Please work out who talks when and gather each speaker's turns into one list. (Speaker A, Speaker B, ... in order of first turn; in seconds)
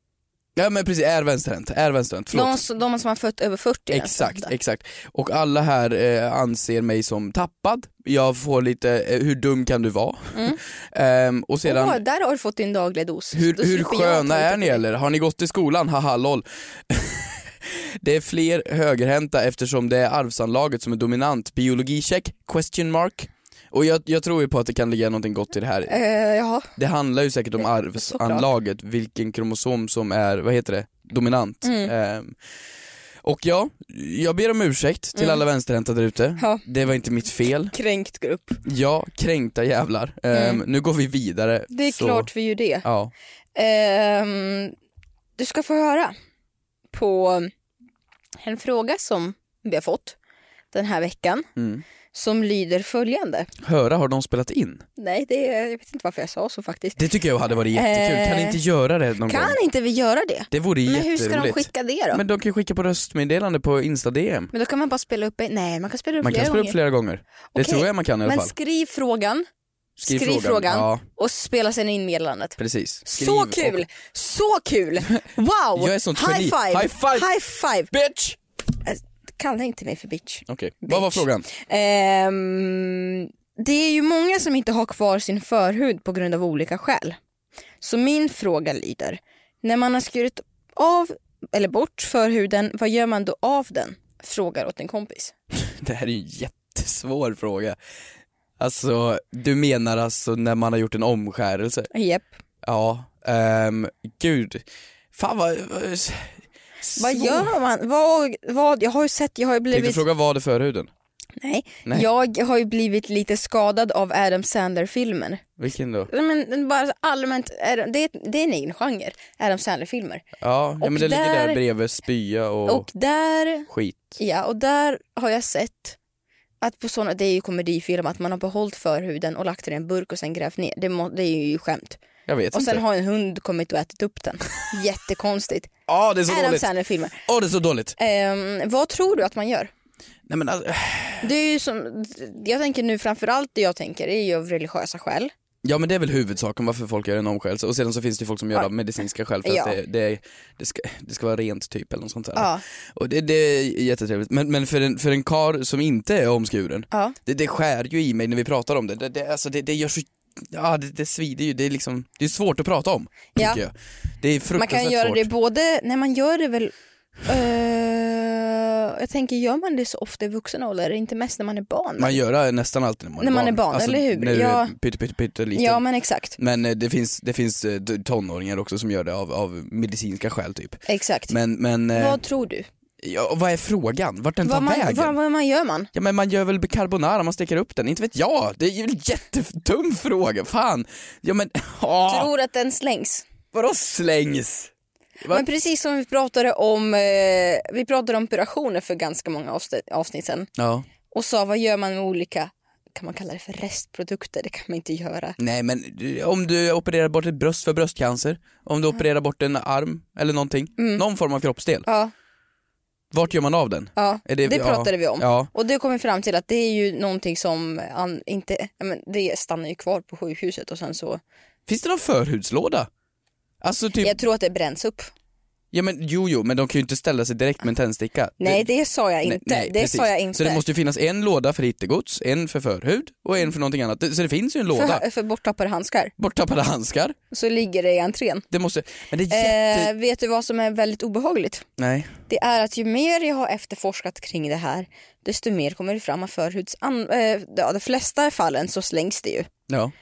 Speaker A: 0.6-2.6, 3.9-12.0, 13.3-26.0, 26.8-32.4, 33.2-37.7, 38.6-42.3, 42.8-43.1, 51.6-51.8, 53.6-54.9, 57.0-59.6, 60.5-64.5, 66.2-68.5, 70.0-71.0, 72.6-73.8, 75.8-77.3, 77.9-78.4, 80.5-81.5, 95.6-97.8, 98.6-101.9, 102.6-107.5, 109.7-110.9, 115.6-116.1, 120.4-122.9, 123.7-124.2, 132.3-132.8, 135.9-136.7, 137.2-138.0, 140.3-141.3, 145.6-165.3, 172.0-175.8, 176.4-182.2, 183.0-185.2, 185.9-192.3, 193.5-195.5, 200.6-200.9, 205.4-211.9, 213.1-215.5, 221.7-222.9, 223.6-224.2, 225.7-228.7, 229.2-235.0, 236.2-237.2, 238.5-239.9, 241.8-242.1, 249.7-249.9
Speaker B: 2.3-4.5, 10.3-10.6, 11.7-14.8, 25.9-26.7, 27.9-28.5, 31.6-31.9, 35.2-35.4, 37.7-38.6, 40.3-40.6, 41.7-42.9, 43.6-44.8, 45.4-46.1, 46.9-47.5, 48.4-50.2, 50.7-51.5, 52.1-53.5, 55.0-57.0, 57.7-58.6, 59.3-62.2, 64.5-66.8, 67.5-69.5, 70.0-77.9, 78.8-87.2, 87.8-95.3, 101.9-102.3, 107.0-110.0, 111.4-115.4, 116.1-120.2, 120.8-121.6, 122.7-126.0, 126.6-135.7, 136.3-137.2, 138.0-139.7, 141.2-145.3, 149.4-149.8, 152.3-152.6, 163.4-163.6, 164.6-166.7, 167.3-172.2, 173.2-174.7, 175.6-176.4, 180.9-181.4, 181.9-182.7, 184.4-185.9, 192.1-193.2, 195.3-200.5, 201.1-205.4, 210.8-211.0, 211.9-212.1, 214.0-221.2, 224.0-225.1, 228.4-230.6, 234.7-236.1, 237.3-238.5, 239.3-241.7, 242.3-249.5